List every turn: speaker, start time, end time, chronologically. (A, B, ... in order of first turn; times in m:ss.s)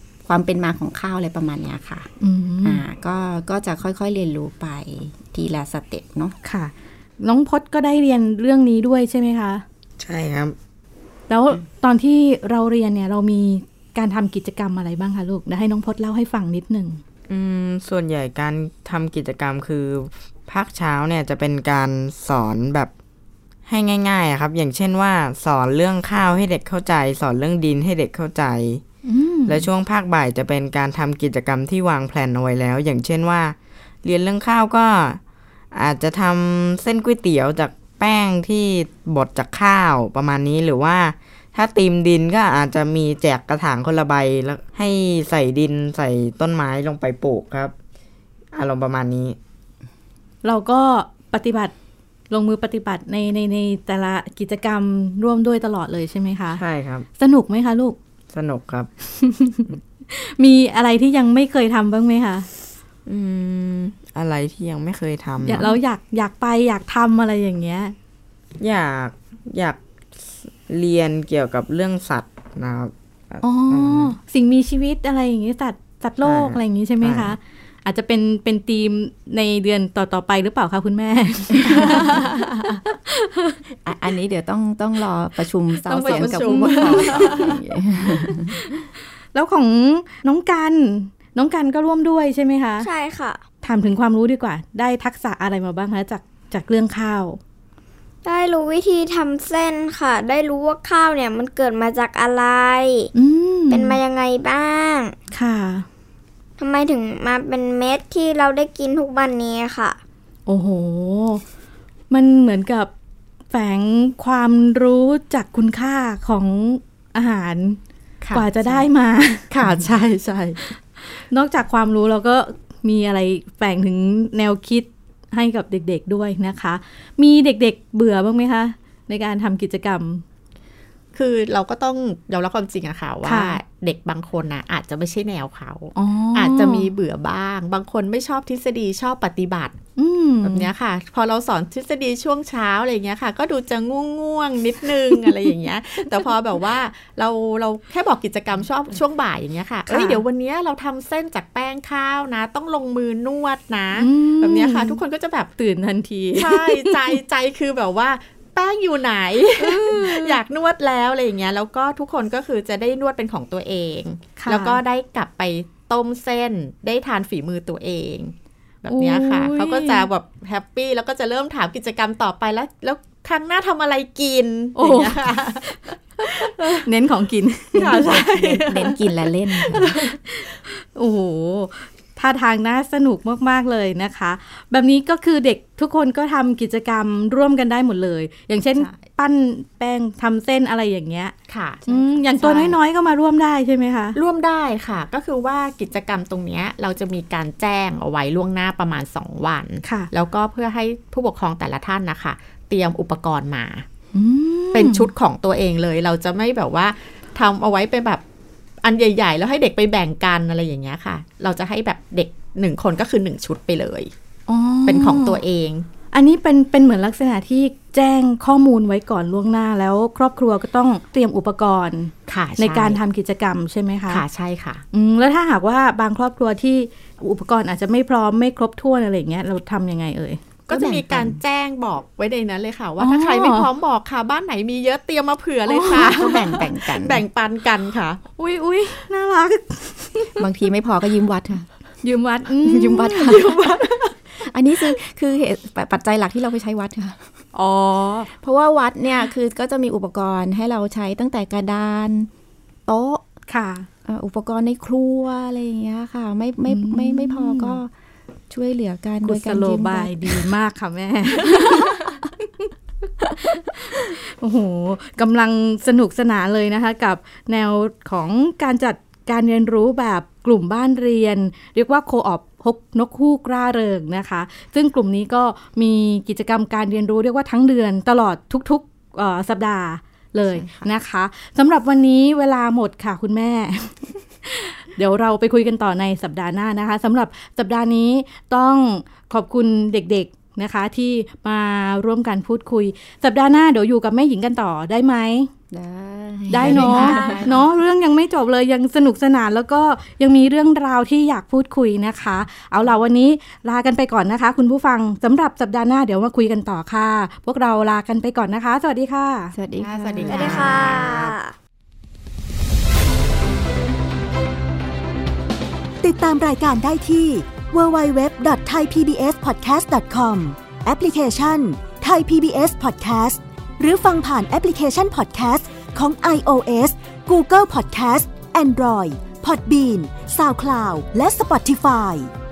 0:00.2-0:02.1 A
0:02.2-0:02.8 B
0:02.6-0:06.4 A
0:06.4-0:09.6 B
0:10.0-0:10.6 C
0:11.3-0:17.0 B
0:17.3-0:22.9 C
0:23.7-0:28.8 C
0:29.0-0:29.7 B
0:29.5-0:35.2 C
0:35.7-0:47.7 C
0:48.5-0:49.4 C
0:50.4-0:51.7 B
0:52.3-0:56.6 B
0:56.6-0:57.1 C
0:57.2-0:58.0 B
0:58.3-0:58.9 C
0:59.2-1:02.5 B
1:03.1-1:05.8 C
1:05.4-1:08.0 B
1:08.6-1:09.8 C
1:10.3-1:14.1 C
1:13.4-1:22.3 B
1:16.2-1:17.4 C
1:22.1-1:22.6 D
1:22.8-1:23.6 B
1:23.8-1:28.7 A
1:25.9-1:27.6 B
1:25.9-1:27.6 D
1:28.3-1:32.9 B
1:32.8-1:33.4 E
1:33.6-1:37.4 B
1:38.2-1:43.1 E
1:43.2-1:44.0 B
1:43.7-1:45.2 E
1:45.3-1:45.9 B
1:46.6-1:50.0 E
1:50.5-1:51.4 B
1:52.1-1:52.9 B
1:53.5-1:57.8 B
1:58.2-1:58.8 D
1:58.3-1:59.5 B
1:59.5-2:00.7 D
2:00.6-2:10.2 B
2:11.2-2:19.8 D
2:13.2-2:13.6 B
2:16.0-2:16.9 B
2:20.0-2:20.7 B
2:20.4-2:35.5 D
2:29.9-2:30.2 B
2:34.0-2:35.0 B
2:35.6-2:37.2 B
2:36.4-2:56.8 D
2:39.6-2:40.4 B
2:44.4-2:44.8 B
2:48.9-2:50.1 B
2:54.8-2:59.0 B
2:57.8-3:00.0 A
2:57.8-2:58.9 D
2:59.5-3:11.3 B
3:11.5-3:11.9 D
3:11.9-3:12.1 A
3:11.9-3:14.2 B
3:12.4-3:12.8 D
3:14.2-3:23.9 D
3:19.8-3:20.1 B
3:24.1-3:25.1 B
3:24.7-3:28.2 D
3:28.8-3:34.1 D
3:34.5-3:35.4 B
3:34.9-3:35.9 D
3:36.1-3:44.2 B
3:42.3-3:43.0 D
3:44.1-3:44.8 D
3:44.9-3:50.4 B
3:50.7-3:58.2 D
3:50.7-3:51.4 A
3:53.0-3:53.7 B
3:55.7-3:56.6 B
3:55.8-3:57.2 A
3:58.4-4:00.4 B
4:00.4-4:01.7 A
4:02.0-4:03.6 B
4:02.6-4:03.8 A
4:03.2-4:04.2 D
4:04.3-4:07.2 A
4:07.5-4:08.3 D
4:08.4-4:12.3 A
4:12.9-4:13.2 A
4:13.5-4:13.9 B
4:14.1-4:17.9 A
4:16.7-4:17.8 B
4:18.5-4:20.5 A
4:19.2-4:22.0 B
4:21.5-4:22.2 A
4:23.2-4:55.5 B
4:55.7-4:57.7 A
4:56.5-5:09.5 B
4:56.5-4:57.5 D
5:09.5-5:11.0 A
5:09.8-5:11.4 D
5:10.3-5:11.5 E
5:16.0-5:32.3 F